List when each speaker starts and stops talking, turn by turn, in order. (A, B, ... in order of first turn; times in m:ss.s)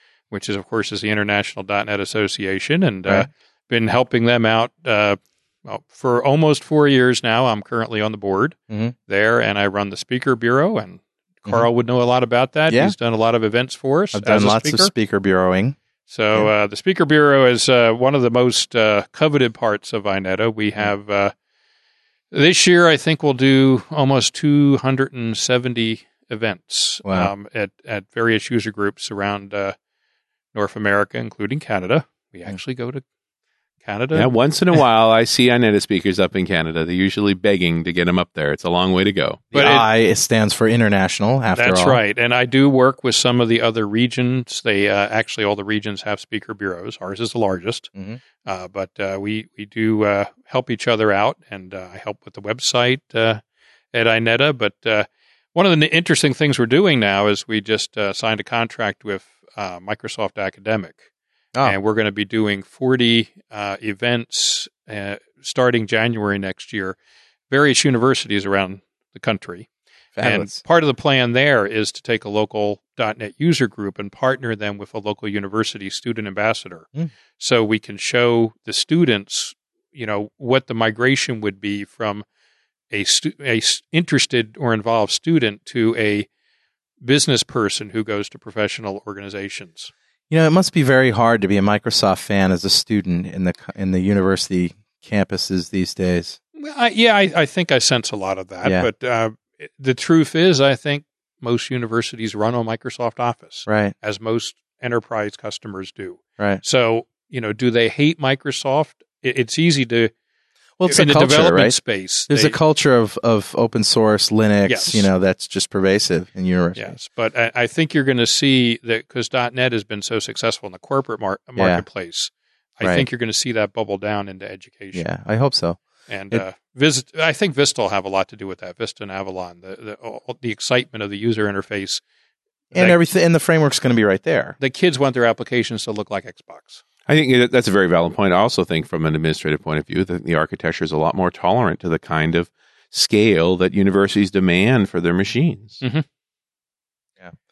0:00.3-0:14.9 A
0:12.7-0:13.0 B
0:14.1-0:15.8 B
0:16.1-0:21.3 A
0:22.3-0:29.8 A
0:27.0-0:27.3 B
0:30.5-0:33.0 A
0:33.8-0:34.3 A
0:34.1-0:39.4 C
0:39.5-0:39.9 A
0:39.5-0:42.0 B
0:41.6-0:47.9 A
0:48.4-0:53.4 A
0:53.9-1:01.0 A
1:01.6-1:07.0 A
1:07.5-1:09.7 A
1:10.2-1:10.6 B
1:10.2-1:22.2 A
1:22.9-1:26.3 A
1:27.0-1:29.9 A
1:30.3-1:36.4 B
1:36.6-1:50.1 A
1:38.6-1:38.9 B
1:43.7-1:43.9 B
1:50.8-1:57.0 B
1:50.8-1:52.6 A
1:54.7-1:55.1 A
1:56.8-2:05.1 A
2:01.6-2:01.8 B
2:04.9-2:06.4 B
2:06.1-2:12.0 A
2:12.7-2:13.0 A
2:12.7-2:14.6 B
2:14.6-2:16.8 A
2:17.1-2:25.8 C